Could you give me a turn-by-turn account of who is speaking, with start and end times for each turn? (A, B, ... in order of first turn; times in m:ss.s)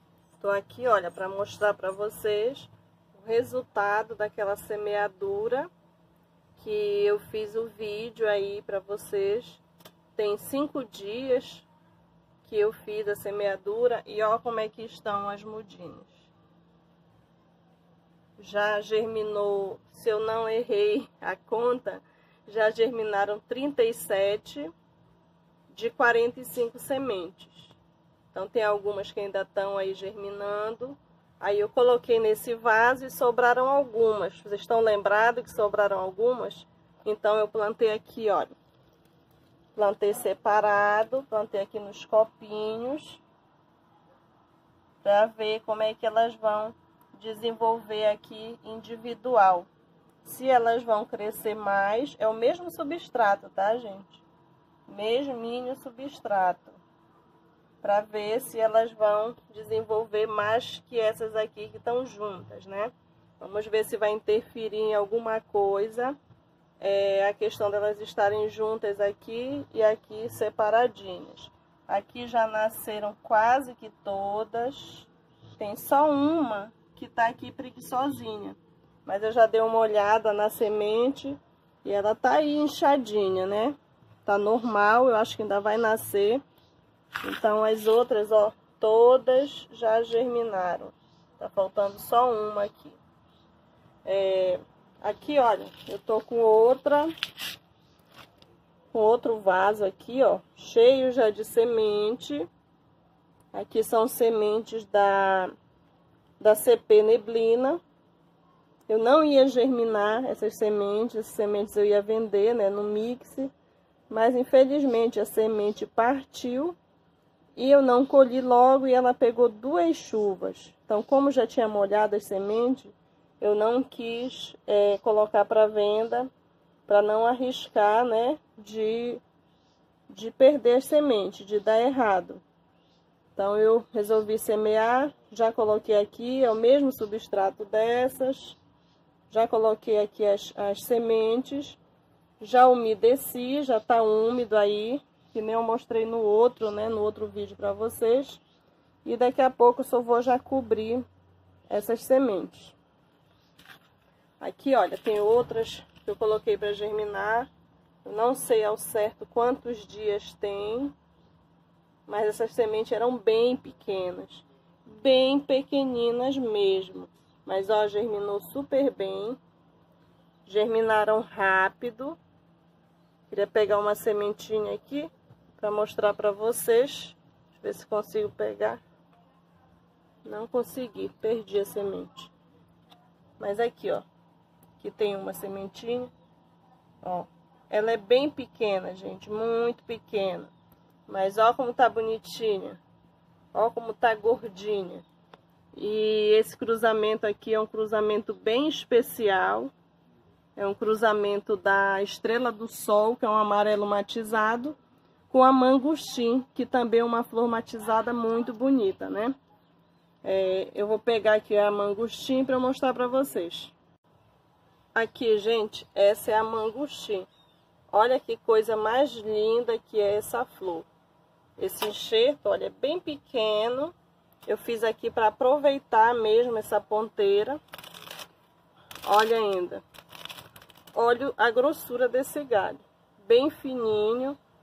0:00.4-0:05.7 A
0:06.6-0:09.6 A
0:10.2-0:11.7 A
0:12.4-0:16.3 A
0:18.4-0:24.7 A
0:25.7-0:27.8 A
0:28.3-0:38.6 A
0:39.8-0:43.2 A
0:45.0-0:49.7 A
0:50.2-0:54.2 A
0:54.9-0:56.8 A
0:57.8-1:06.2 A
1:06.8-1:26.4 A
1:27.2-1:33.0 A
1:34.0-1:37.1 A
1:38.9-1:42.5 A
1:43.5-1:45.5 A
1:46.4-1:47.8 A
1:48.9-1:53.5 A
1:54.1-1:56.8 A
1:57.6-2:06.3 A
2:06.9-2:09.2 A
2:10.1-2:12.4 A
2:13.4-2:18.6 A
2:19.3-2:21.8 A
2:22.4-2:28.4 A
2:29.0-2:31.0 A
2:31.7-2:32.8 A
2:34.4-2:37.5 A
2:38.0-2:40.9 A
2:42.1-2:49.4 A
2:50.5-2:52.2 A
2:53.3-2:58.8 A
3:00.2-3:02.3 A
3:03.4-3:04.0 A
3:04.8-3:06.1 A
3:07.0-3:10.5 A
3:11.1-3:12.8 A
3:13.5-3:15.0 A
3:15.7-3:19.7 A
3:20.6-3:24.8 A
3:25.3-3:29.3 A
3:30.2-3:33.7 A
3:35.0-3:37.3 A
3:37.9-3:40.9 A
3:41.6-3:43.9 A
3:44.5-3:47.6 A
3:49.0-3:49.8 A
3:50.9-3:54.4 A